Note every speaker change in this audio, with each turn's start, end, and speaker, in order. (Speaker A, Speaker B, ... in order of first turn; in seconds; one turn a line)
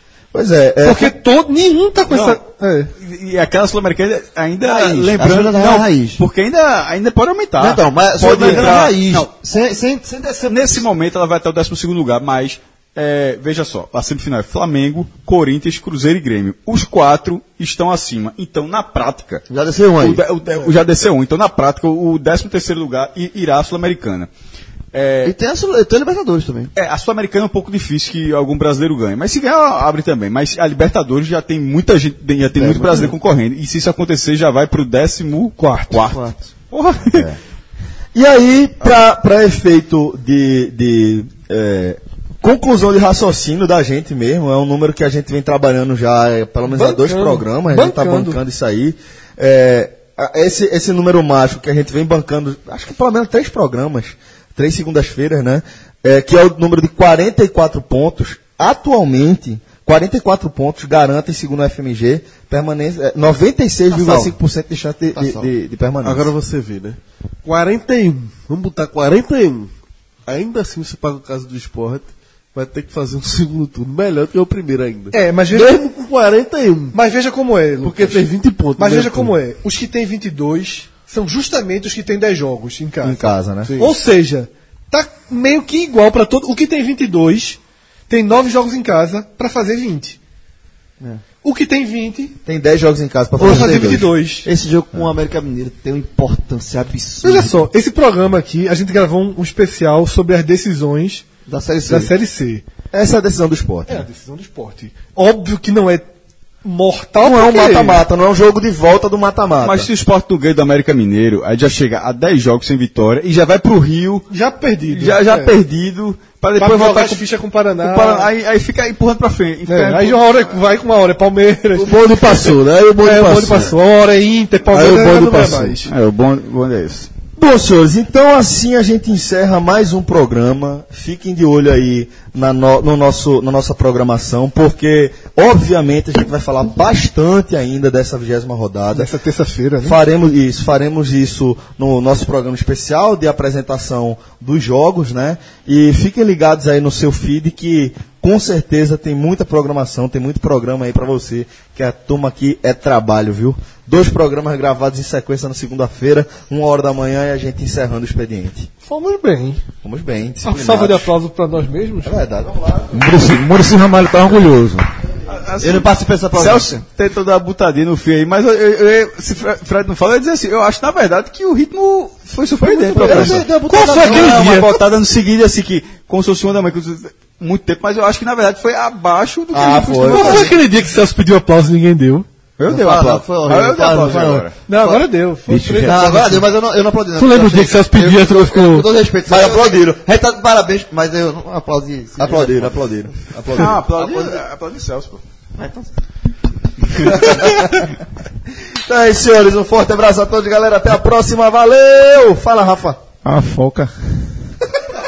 Speaker A: 0.3-1.1
Speaker B: 0.8-2.9
Speaker C: 2.1-2.4
Speaker C: 3.0-9.3
Speaker D: 4.6-6.2
Speaker D: 7.6-10.8
Speaker C: 10.4-19.4
Speaker D: 19.5-20.7
Speaker C: 20.0-24.3
Speaker C: 24.9-25.3
Speaker D: 25.2-26.7
Speaker C: 26.7-37.3
Speaker D: 32.6-33.1
Speaker B: 35.6-36.0
Speaker D: 36.0-36.3
Speaker A: 37.1-37.4
Speaker A: 38.1-66.3
Speaker B: 46.6-48.4
Speaker D: 63.9-64.3
Speaker D: 65.1-65.5
Speaker E: 66.0-69.7
Speaker E: 70.3-77.0
Speaker B: 75.1-75.8
Speaker B: 76.9-83.2
Speaker E: 77.8-79.3
Speaker A: 83.0-83.7
Speaker E: 83.6-83.9
Speaker B: 83.8-90.2
Speaker B: 91.4-92.4
Speaker A: 92.4-94.1
Speaker B: 93.4-94.5
Speaker D: 93.4-97.6
Speaker B: 97.2-101.2
Speaker D: 101.5-102.1
Speaker B: 101.8-102.6
Speaker A: 102.9-104.0
Speaker B: 103.9-106.1
Speaker B: 106.6-108.0
Speaker A: 107.2-109.9
Speaker C: 109.6-114.3
Speaker B: 114.3-115.5
Speaker C: 114.8-117.2
Speaker B: 116.6-118.3
Speaker C: 117.8-120.6
Speaker B: 119.7-125.9
Speaker E: 121.7-123.7
Speaker E: 124.7-125.8
Speaker C: 125.8-127.1
Speaker A: 127.3-139.1
Speaker B: 138.9-140.0
Speaker A: 139.8-158.7
Speaker B: 158.8-159.6
Speaker A: 159.8-161.1
Speaker B: 160.4-162.2
Speaker A: 162.0-163.0
Speaker F: 162.9-164.9
Speaker C: 165.3-180.5
Speaker D: 165.6-166.8
Speaker D: 172.6-174.5
Speaker A: 173.0-173.4
Speaker B: 173.3-174.8
Speaker A: 179.5-180.5
Speaker B: 180.1-182.2
Speaker C: 182.6-184.6
Speaker D: 182.7-185.0
Speaker B: 184.7-186.4
Speaker F: 185.5-186.4
Speaker D: 185.8-192.8
Speaker B: 187.2-188.9
Speaker A: 189.3-190.0
Speaker A: 192.2-193.8
Speaker C: 193.5-195.2
Speaker D: 193.9-194.4
Speaker D: 195.6-195.9
Speaker C: 197.0-197.3
Speaker A: 197.1-197.9
Speaker A: 198.8-203.0
Speaker F: 203.2-203.9